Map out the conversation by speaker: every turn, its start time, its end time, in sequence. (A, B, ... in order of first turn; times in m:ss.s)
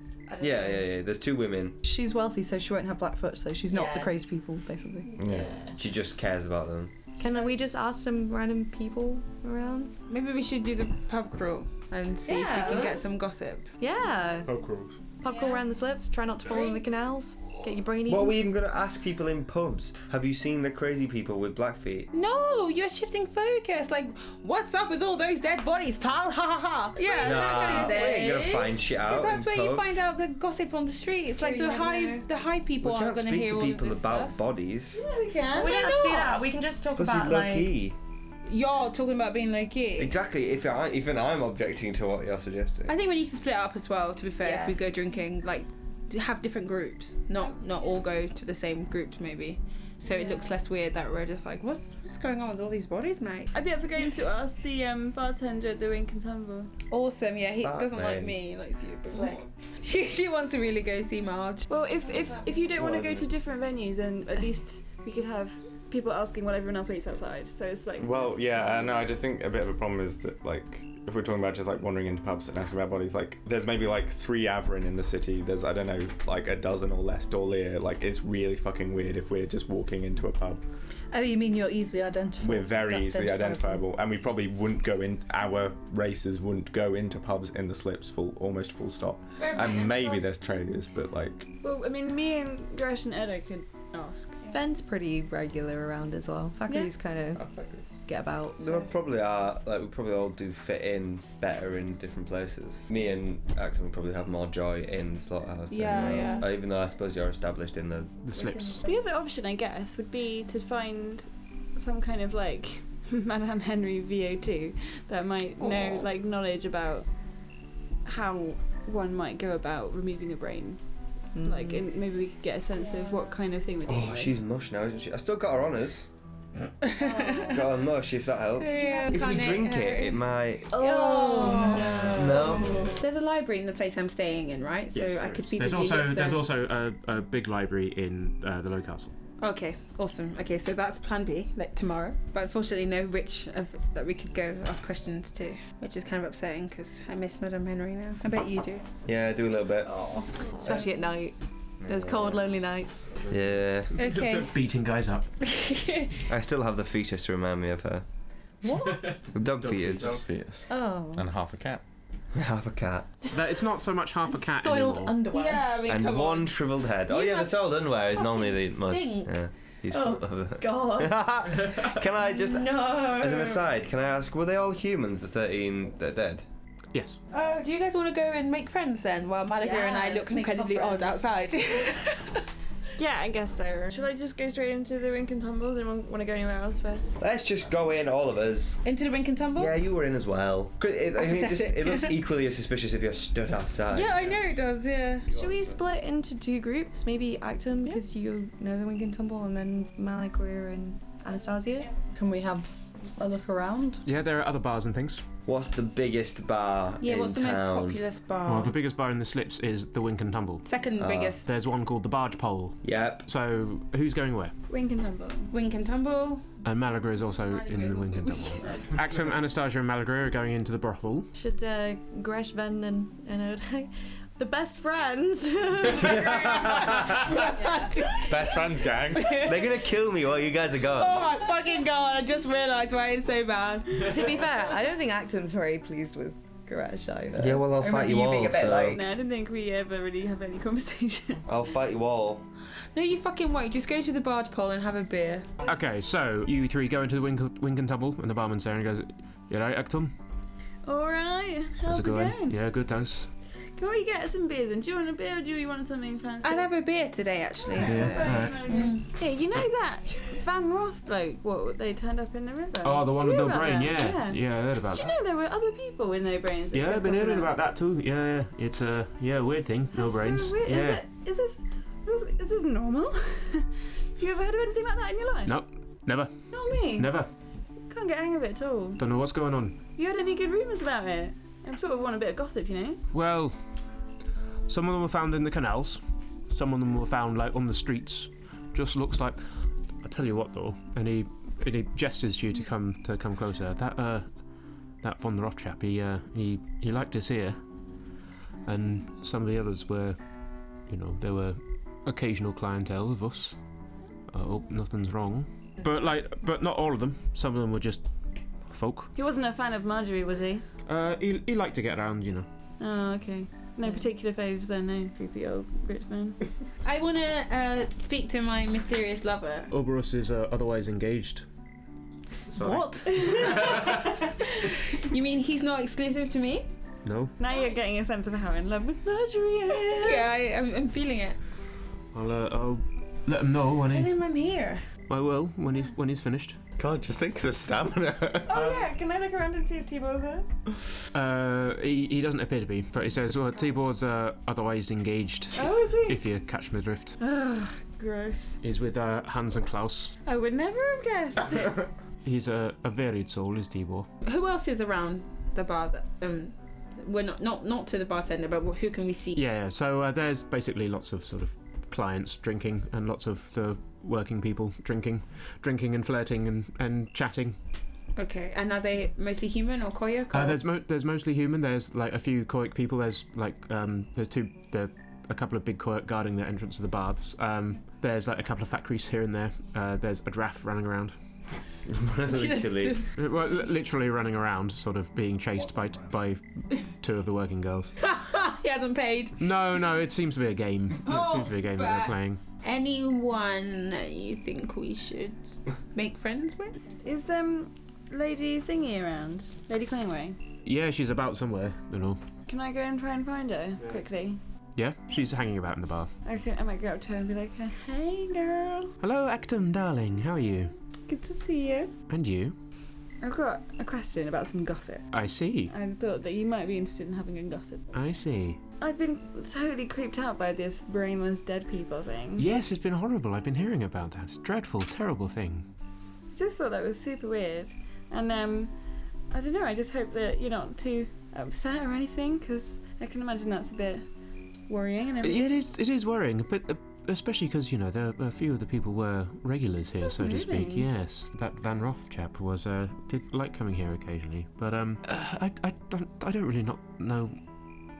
0:00.3-0:00.9 A
0:00.4-0:01.8 B
0:01.8-0:05.2 C
0:03.7-0:04.2 A
0:05.2-0:05.6 D
0:05.2-0:05.7 A
0:05.4-0:06.9 B
0:07.2-0:09.9 A
0:10.1-0:13.7 E
0:12.2-0:13.0 A
0:13.8-0:14.5 A
0:14.4-0:15.0 D
0:15.2-0:18.4 A
0:15.3-0:15.6 E
0:18.1-0:22.1 B
0:22.1-0:34.4 E
0:27.0-0:27.7 F
0:27.1-0:28.6 A
0:27.2-0:30.0 B
0:31.4-0:32.3 A
0:32.8-0:35.0 B
0:35.0-0:36.0 F
0:35.5-0:37.7 A
0:35.6-0:36.4 E
0:37.0-0:38.0 B
0:38.4-0:40.1 E
0:40.0-0:42.9 B
0:42.9-0:53.5 E
0:44.4-0:44.8 A
0:53.5-0:56.7 F
0:56.9-1:02.7 E
0:57.6-0:58.3 B
1:01.7-1:09.1 F
1:02.8-1:03.2 D
1:08.0-1:20.6 D
1:21.1-1:23.8 C
1:22.4-1:31.5 D
1:29.4-1:30.2 E
1:31.6-1:34.4 F
1:34.5-1:37.5 A
1:37.3-1:37.8 D
1:38.0-1:38.9 A
1:38.6-1:48.2 B
1:45.7-1:46.5 E
1:45.9-1:46.4 A
1:48.2-1:48.8 G
1:48.8-1:57.1 F
1:55.6-1:56.1 E
1:58.0-2:00.8 F
2:01.3-2:01.8 A
2:01.4-2:04.4 F
2:03.8-2:06.1 B
2:06.8-2:07.8 E
2:07.5-2:10.8 B
2:08.5-2:16.5 E
2:08.8-2:09.1 A
2:10.7-2:12.8 A
2:11.3-2:12.2 C
2:12.0-2:13.0 B
2:14.9-2:19.1 G
2:19.4-2:28.8 E
2:29.0-2:30.0 B
2:29.9-2:30.8 E
2:30.6-2:33.1 A
2:31.8-2:32.4 D
2:33.3-2:33.9 B
2:33.9-2:35.3 G
2:34.0-2:34.5 E
2:35.4-2:36.3 E
2:36.3-2:38.0 B
2:38.6-2:39.2 C
2:38.8-2:40.2 G
2:39.2-2:40.2 B
2:39.9-2:41.8 D
2:40.7-2:41.2 C
2:42.3-2:43.1 B
2:43.3-2:45.2 G
2:44.5-2:45.6 A
2:45.3-2:49.3 E
2:45.8-2:56.4 B
2:49.9-2:51.2 A
2:52.2-2:53.4 A
2:57.3-3:02.4 E
2:59.6-3:01.4 A
3:03.0-3:07.2 F
3:07.2-3:08.8 B
3:08.8-3:09.8 E
3:09.6-3:14.2 B
3:11.2-3:12.2 E
3:13.9-3:15.3 E
3:15.3-3:21.9 A
3:22.1-3:24.0 C
3:24.0-3:25.2 G
3:25.4-3:28.0 B
3:27.0-3:28.7 E
3:28.4-3:30.6 G
3:30.6-3:31.4 E
3:31.0-3:31.4 B
3:31.4-3:34.5 G
3:32.8-3:33.2 B
3:34.7-3:35.5 F
3:35.5-3:36.4 E
3:36.6-3:41.3 G
3:37.6-3:39.0 F
3:37.8-3:38.9 E
3:41.3-3:48.0 A
3:46.0-3:47.2 B
3:46.5-3:50.0 E
3:48.3-3:49.5 D
3:49.4-3:51.2 B
3:50.8-3:54.2 E
3:54.0-3:59.0 A
3:57.4-3:59.0 B
3:58.9-4:01.4 F
4:01.4-4:02.4 B
4:02.9-4:05.5 E
4:05.6-4:10.1 G
4:10.8-4:12.6 F
4:11.8-4:13.3 G
4:13.8-4:16.7 F
4:16.4-4:19.1 E
4:17.6-4:27.5 F
4:17.8-4:18.7 G
4:22.8-4:25.2 G
4:26.7-4:31.0 G
4:29.9-4:35.6 F
4:35.4-4:36.3 G
4:36.5-4:37.2 F
4:37.0-4:37.3 G
4:37.9-4:39.0 F
4:39.0-4:39.8 G
4:40.0-4:43.0 F
4:43.1-4:43.6 G
4:44.7-4:54.4 G
4:55.0-4:57.6 G
4:58.6-5:00.2 G
5:00.9-5:03.6 G
5:04.3-5:08.0 G
5:08.7-5:09.1 G
5:09.2-5:10.6 F
5:10.9-5:12.4 G
5:12.8-5:16.4 F
5:16.8-5:19.7 E
5:19.7-5:21.4 G
5:22.5-5:24.0 G
5:22.6-5:23.0 C
5:23.0-5:23.8 F
5:23.4-5:26.7 E
5:27.0-5:27.3 G
5:27.4-5:30.3 F
5:29.7-5:31.4 E
5:32.1-5:34.1 G
5:33.9-5:34.8 E
5:35.1-5:36.6 G
5:36.8-5:38.6 D
5:38.4-5:40.5 F
5:38.5-5:38.8 G
5:41.1-5:47.2 G
5:45.5-5:46.2 F
5:47.2-5:48.6 F
5:48.6-5:50.1 G
5:50.2-5:51.8 F
5:52.2-5:54.1 G
5:54.2-5:59.4 E
5:59.4-6:07.6 G
6:08.2-6:10.6 E
6:10.3-6:21.2 G
6:21.9-6:23.1 B
6:22.3-6:23.1 E
6:23.1-6:27.9 G
6:28.0-6:29.4 E
6:29.4-6:32.4 G
6:31.0-6:36.8 E
6:37.0-6:40.4 F
6:40.6-6:42.2 G
6:42.5-6:44.4 F
6:44.8-6:46.1 G
6:46.2-6:48.9 F
6:49.0-6:50.7 G
6:51.1-6:51.9 F
6:52.1-6:52.6 G
6:53.2-6:55.1 F
6:55.1-6:55.7 G
6:55.7-6:58.1 F
6:57.9-6:58.6 G
6:58.8-7:02.5 F
7:02.4-7:05.7 G
7:06.3-7:08.7 F
7:09.3-7:14.1 F
7:14.7-7:15.4 F
7:15.2-7:27.4 G
7:20.0-7:20.9 F